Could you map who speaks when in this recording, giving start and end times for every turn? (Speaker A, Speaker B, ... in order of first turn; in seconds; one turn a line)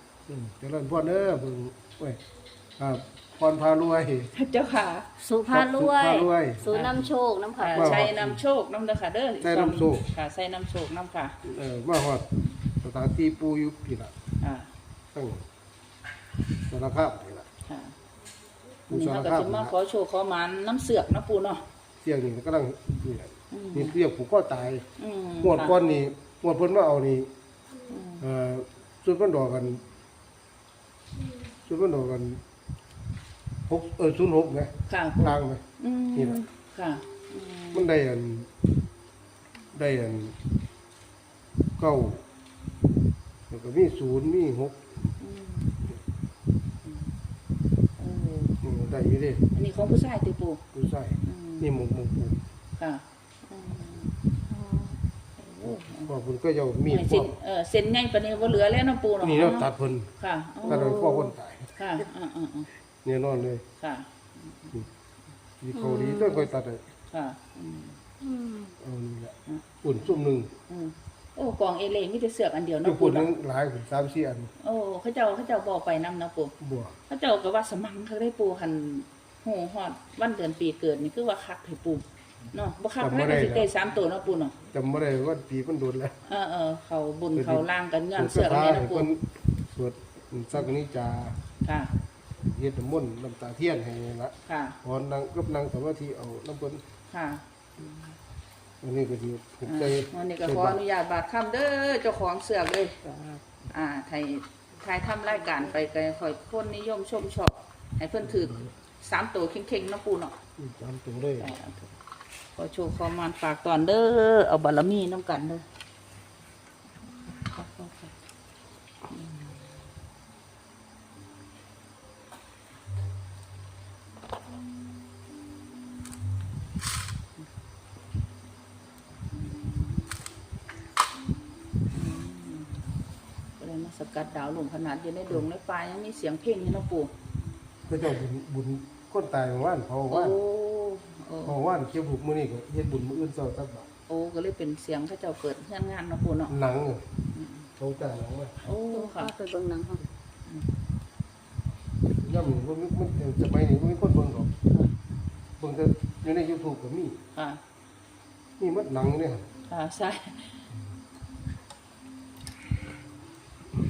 Speaker A: 0.3-2.2
Speaker A: 2.8-4.3
Speaker B: 4.3-5.1
Speaker C: 5.2-8.0
Speaker A: 5.5-6.7
Speaker B: 6.7-7.1
Speaker B: 7.6-11.3
Speaker A: 7.7-8.4
Speaker A: 9.4-10.1
Speaker A: 11.4-12.3
Speaker A: 12.8-14.2
Speaker B: 14.4-14.7
Speaker A: 15.1-15.4
Speaker A: 16.6-17.5
Speaker B: 17.7-17.9
Speaker A: 18.9-19.7
Speaker B: 18.9-21.6
Speaker A: 22.0-24.9
Speaker B: 23.5-23.9
Speaker B: 25.0-25.8
Speaker A: 25.4-27.3
Speaker B: 27.9-28.2
Speaker A: 28.2-29.8
Speaker A: 31.6-32.4
Speaker A: 33.7-35.6
Speaker B: 34.9-37.9
Speaker A: 36.1-36.4
Speaker A: 37.7-38.5
Speaker A: 39.7-40.4
Speaker A: 41.8-42.2
Speaker A: 43.5-44.9
Speaker B: 45.2-45.7
Speaker B: 46.8-47.1
Speaker B: 48.0-48.6
Speaker A: 48.6-49.5
Speaker B: 49.5-50.6
Speaker A: 50.7-52.4
Speaker B: 51.2-51.7
Speaker B: 52.8-56.1
Speaker A: 55.9-57.3
Speaker B: 56.9-62.7
Speaker A: 59.2-60.1
Speaker C: 60.6-61.2
Speaker A: 60.7-61.7
Speaker A: 63.0-63.6
Speaker B: 63.8-64.9
Speaker A: 65.6-66.8
Speaker B: 65.7-66.5
Speaker B: 67.1-68.0
Speaker C: 68.2-68.7
Speaker A: 68.8-70.5
Speaker B: 69.5-70.1
Speaker B: 70.7-73.3
Speaker A: 72.8-74.5
Speaker B: 74.6-76.5
Speaker A: 76.6-77.0
Speaker B: 77.1-84.6
Speaker A: 83.0-83.7
Speaker A: 84.7-86.2
Speaker B: 86.3-89.1
Speaker A: 87.3-91.4
Speaker B: 91.6-91.9
Speaker A: 92.4-96.8
Speaker B: 94.5-94.8
Speaker B: 97.1-98.0
Speaker A: 98.8-100.8
Speaker B: 99.7-103.0
Speaker B: 103.7-110.3
Speaker A: 108.4-108.7
Speaker A: 110.6-111.5
Speaker B: 111.4-111.9
Speaker B: 112.5-115.7
Speaker B: 117.4-118.1
Speaker B: 119.1-119.6
Speaker B: 131.9-132.8
Speaker B: 133.6-137.1
Speaker A: 137.9-140.4
Speaker B: 140.1-141.6
Speaker A: 141.4-143.9
Speaker B: 144.1-146.5
Speaker A: 146.5-147.0
Speaker B: 147.3-147.7
Speaker A: 147.8-148.6
Speaker B: 148.6-149.3
Speaker C: 148.9-150.1
Speaker A: 152.2-154.5
Speaker A: 155.6-157.2
Speaker B: 157.3-157.6
Speaker A: 158.6-159.5
Speaker B: 159.7-160.6